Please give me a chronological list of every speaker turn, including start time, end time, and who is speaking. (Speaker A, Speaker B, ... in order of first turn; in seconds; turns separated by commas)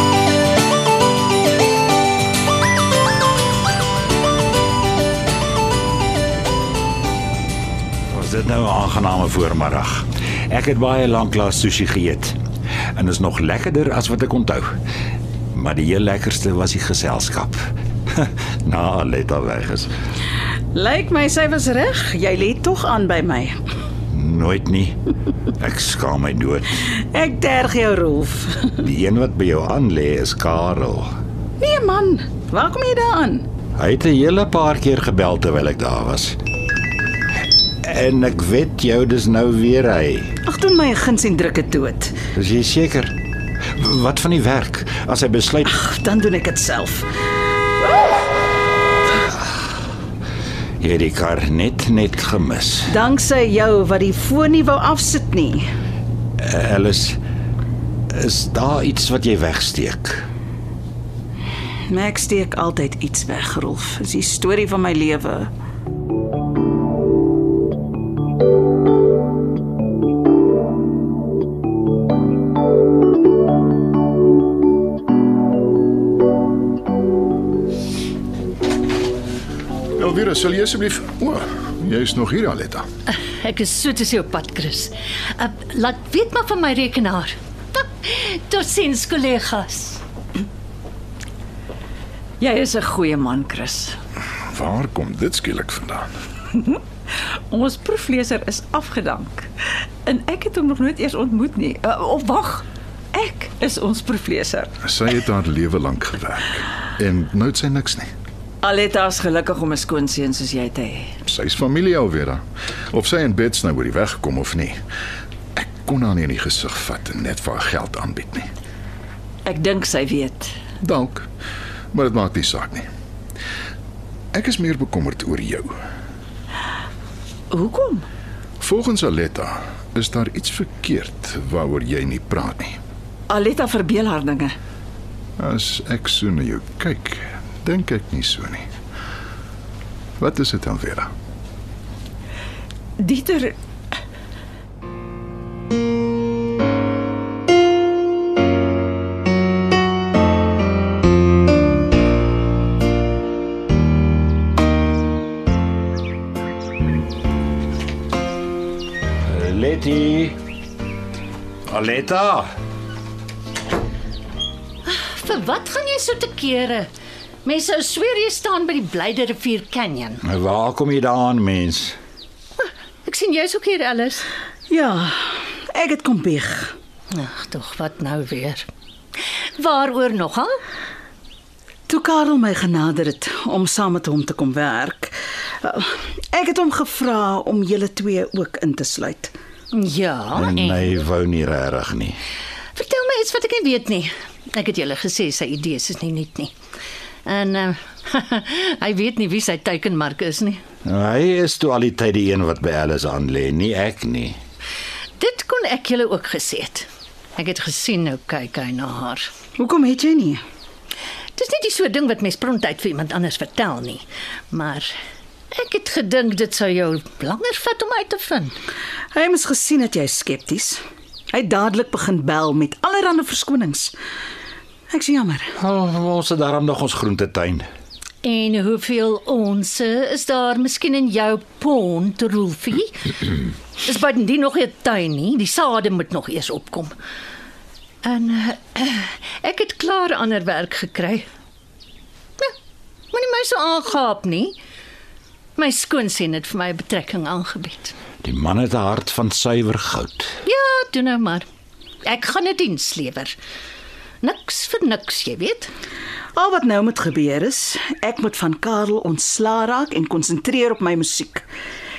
Speaker A: 8.1-12.4, Speaker A: 12.9-14.7, Speaker A: 15.5-17.6, Speaker A: 18.1-19.9, Speaker B: 20.7-23.6, Speaker A: 24.1-26.9, Speaker B: 27.0-28.8, Speaker A: 28.8-31.1, Speaker B: 31.6-33.5, Speaker A: 33.8-36.4, Speaker A: 37.8-40.3, Speaker B: 40.4-42.1, Speaker A: 42.3-43.1, Speaker A: 43.7-45.7, Speaker B: 45.7-47.1, Speaker B: 47.8-48.1, Speaker A: 50.8-52.9, Speaker B: 52.9-55.6, Speaker A: 56.4-57.2, Speaker A: 58.1-60.2, Speaker B: 61.9-65.5, Speaker C: 80.0-82.9, Speaker D: 83.2-90.0, Speaker E: 92.4-94.0, Speaker C: 94.5-96.1, Speaker E: 96.5-104.7, Speaker C: 104.8-108.1, Speaker E: 108.6-111.1, Speaker C: 111.2-112.4, Speaker C: 112.9-114.8, Speaker C: 115.5-118.5, Speaker E: 119.5-120.5, Speaker C: 120.8-121.3, Speaker C: 121.9-122.9, Speaker C: 124.3-125.7, Speaker E: 127.5-128.1, Speaker C: 128.6-132.8, Speaker E: 133.3-134.6, Speaker C: 135.4-138.7, Speaker C: 140.2-141.1, Speaker E: 143.0-143.6, Speaker A: 159.2-160.4, Speaker A: 161.7-162.5, Speaker D: 164.8-166.9, Speaker D: 167.4-170.2, Speaker A: 170.2-171.9, Speaker D: 173.0-174.3, Speaker B: 174.7-176.7, Speaker D: 177.1-178.7, Speaker D: 179.6-180.5, Speaker B: 181.9-189.3, Speaker D: 189.7-190.9, Speaker A: 190.3-192.2, Speaker D: 192.7-196.5, Speaker D: 197.2-200.6, Speaker A: 200.8-204.4, Speaker D: 205.2-209.3, Speaker B: 209.6-210.4, Speaker D: 211.3-214.9, Speaker D: 215.5-218.5, Speaker B: 219.1-220.8, Speaker B: 221.3-223.9, Speaker B: 224.9-225.5, Speaker A: 225.6-227.7, Speaker D: 228.2-236.9, Speaker D: 238.0-241.2, Speaker D: 243.1-244.6, Speaker D: 245.6-247.9, Speaker A: 248.2-250.3, Speaker D: 250.4-251.4, Speaker D: 252.0-253.3, Speaker D: 254.2-255.7, Speaker B: 256.3-261.4